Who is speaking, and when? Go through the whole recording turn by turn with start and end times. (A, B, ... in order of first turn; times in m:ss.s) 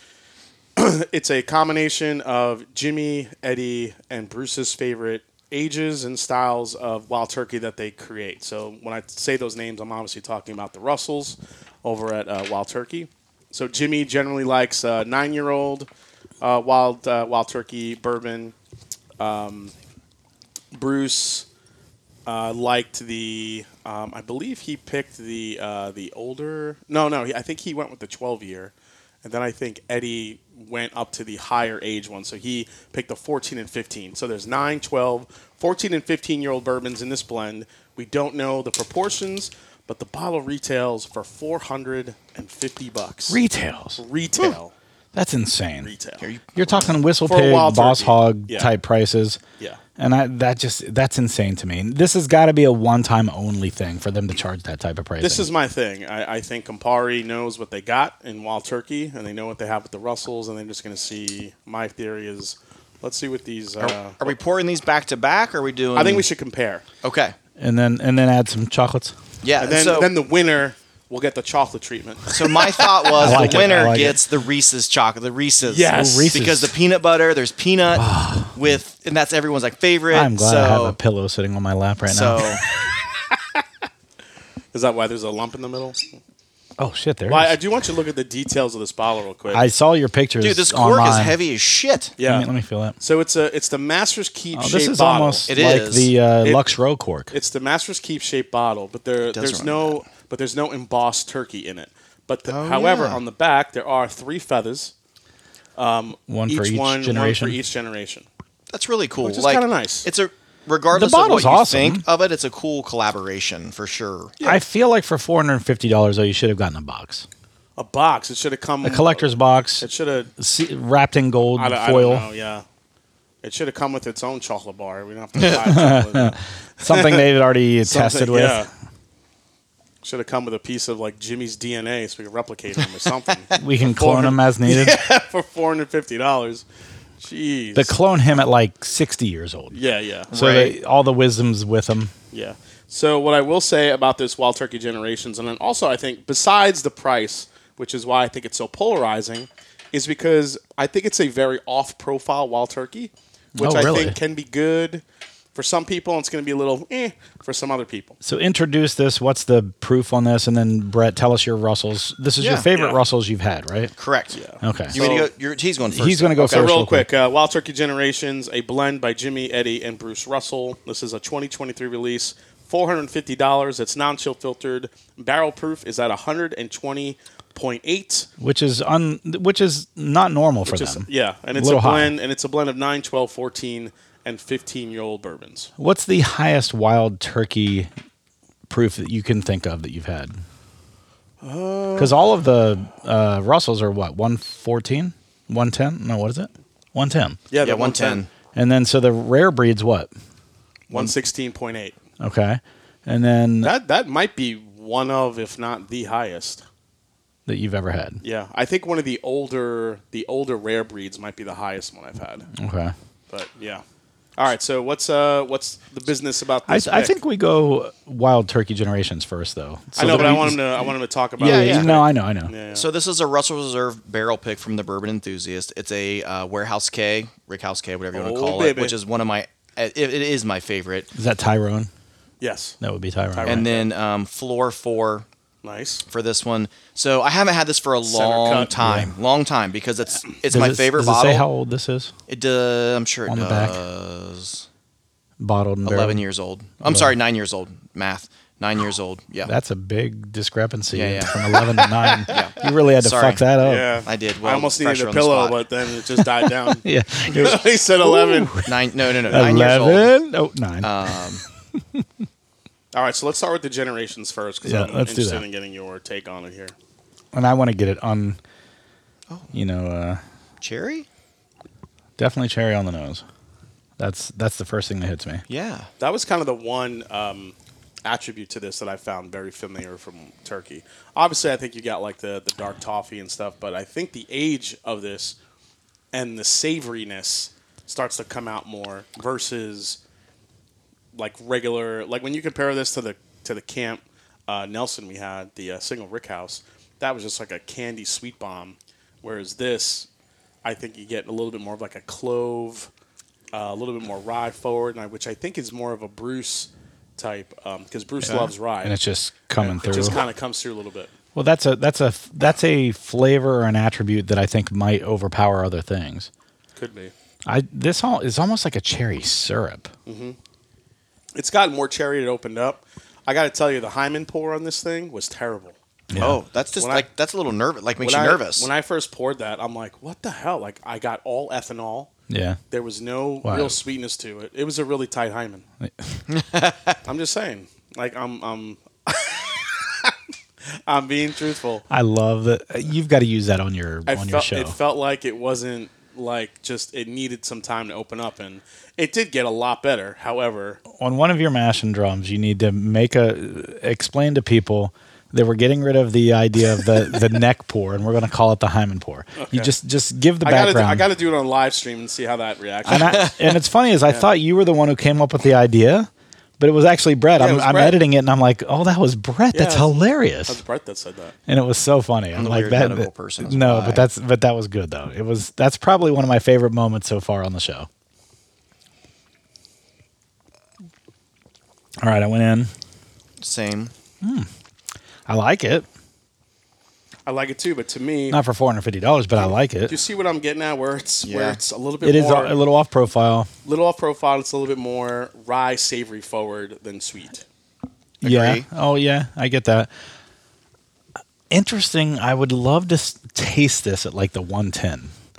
0:00.8-0:15.9 A
0:16.4-0:18.6 A
0:19.2-0:19.7 A
0:20.7-0:21.5 A
0:22.3-0:43.4 A
0:43.3-0:44.0 B
0:44.0-0:44.7 A
0:45.1-0:45.9 B
0:45.8-0:46.3 A
0:46.2-0:47.0 C
0:46.6-0:49.4 B
0:47.3-0:48.7 A
0:50.0-0:55.5 B
0:55.2-1:04.3 A
1:03.8-1:06.3 C
1:06.0-1:06.8 A
1:07.0-1:07.4 C
1:07.6-1:09.2 B
1:09.4-1:10.1 C
1:09.6-1:14.1 A
1:12.3-1:21.0 C
1:13.2-1:14.2 B
1:15.6-1:16.4 A
1:15.9-1:16.8 B
1:17.9-1:18.5 B
1:20.1-1:22.4 B
1:22.1-1:22.6 C
1:22.9-1:23.6 A
1:24.7-1:26.0 A
1:26.8-1:27.6 B
1:27.3-1:29.6 A
1:29.5-1:31.4 B
1:30.4-1:32.1 C
1:32.2-1:32.5 A
1:32.2-1:33.0 B
1:33.0-1:35.5 A
1:34.5-1:37.3 B
1:35.5-1:36.1 C
1:37.3-1:44.9 A
1:39.3-1:40.0 C
1:42.5-1:43.2 C
1:45.8-1:48.3 A
1:46.3-1:47.6 B
1:48.7-1:54.4 C
1:49.2-1:50.1 A
1:50.9-1:52.0 B
1:54.4-1:57.3 B
1:57.8-1:59.3 A
1:58.8-1:59.9 B
1:59.8-2:00.3 A
2:00.4-2:02.3 B
2:01.6-2:02.6 A
2:03.4-2:07.2 A
2:05.6-2:08.7 B
2:07.8-2:08.7 A
2:10.0-2:16.6 A
2:13.6-2:15.0 B
2:17.2-2:18.0 A
2:17.8-2:19.8 B
2:19.7-2:20.3 A
2:20.3-2:20.8 C
2:20.3-2:22.1 B
2:22.3-2:35.0 A
2:33.6-2:34.2 B
2:35.6-2:38.2 A
2:38.2-2:43.9 B
2:42.4-2:42.7 C
2:42.7-2:43.0 A
2:44.0-2:44.4 C
2:44.3-2:45.3 A
2:44.6-2:45.0 B
2:44.9-2:46.7 C
2:45.9-2:47.1 B
2:46.4-2:58.3 A
2:58.4-3:02.1 B
3:00.6-3:05.7 A
3:05.8-3:07.9 B
3:08.7-3:10.4 B
3:11.4-3:12.2 A
3:12.0-3:17.4 B
3:17.5-3:18.2 A
3:17.6-3:18.3 C
3:18.5-3:20.1 B
3:20.9-3:22.0 A
3:22.2-3:23.7 B
3:23.6-3:26.6 A
3:27.5-3:28.2 B
3:28.2-3:32.5 A
3:32.6-3:32.9 B
3:33.3-3:33.8 A
3:34.4-3:37.2 A
3:36.7-3:40.6 B
3:40.0-3:42.9 A
3:40.0-3:40.3 C
3:41.4-3:42.5 B
3:41.4-3:42.0 C
3:42.7-3:51.1 C
3:48.1-3:49.0 A
3:51.2-3:51.9 B
3:52.4-3:52.8 A
3:52.8-3:53.7 B
3:53.3-3:53.9 A
3:53.4-3:55.3 C
3:55.6-3:56.0 A
3:56.1-4:01.5 C
3:58.0-3:58.8 A
3:58.8-3:59.1 B
4:00.5-4:02.1 B
4:02.3-4:04.7 C
4:03.3-4:03.8 B
4:05.4-4:06.2 B
4:05.8-4:09.5 C
4:06.8-4:07.1 B
4:09.5-4:14.0 B
4:10.9-4:11.4 C
4:11.8-4:12.4 A
4:12.3-4:13.4 C
4:13.6-4:18.6 A
4:14.0-4:15.6 C
4:16.8-4:22.0 B
4:18.6-4:20.1 C
4:19.3-4:19.6 A
4:20.8-4:21.4 C
4:22.9-4:26.8 A
4:24.6-4:25.4 B
4:27.3-4:28.4 B
4:29.5-4:30.2 B
4:30.6-4:31.1 C
4:32.2-4:33.2 B
4:34.0-4:35.4 B
4:35.5-4:35.9 C
4:36.0-4:45.4 A
4:46.1-4:50.0 A
4:51.2-5:00.1 A
5:00.6-5:02.9 A
5:03.5-5:09.0 A
5:08.3-5:08.5 C
5:08.3-5:10.2 B
5:09.6-5:11.1 A
5:11.4-5:16.3 B
5:16.8-5:17.1 A
5:17.5-5:19.9 B
5:20.1-5:20.4 A
5:21.4-5:25.8 A
5:26.1-5:26.4 B
5:26.2-5:28.7 C
5:26.8-5:27.1 A
5:28.0-5:32.1 A
5:32.3-5:32.6 B
5:32.7-5:35.6 A
5:33.4-5:33.8 B
5:35.8-5:36.2 B
5:36.3-5:37.0 C
5:37.1-5:40.1 A
5:40.9-5:41.9 A
5:41.9-5:44.8 B
5:44.1-5:50.8 A
5:50.9-6:01.1 B
5:59.4-5:59.7 A
6:00.4-6:03.4 A
6:02.9-6:10.6 B
6:07.4-6:08.0 A
6:09.5-6:11.4 A
6:11.5-6:17.9 B
6:12.4-6:14.1 C
6:22.0-6:22.7 B
6:23.4-6:23.9 C
6:24.2-6:24.5 B
6:25.3-6:25.9 B
6:27.3-6:28.4 A
6:28.3-6:30.0 B
6:29.4-6:32.6 A
6:31.2-6:31.6 C
6:32.0-6:33.5 B
6:33.6-6:37.4 A
6:38.2-6:38.7 C
6:38.2-6:39.9 B
6:41.5-6:45.1 B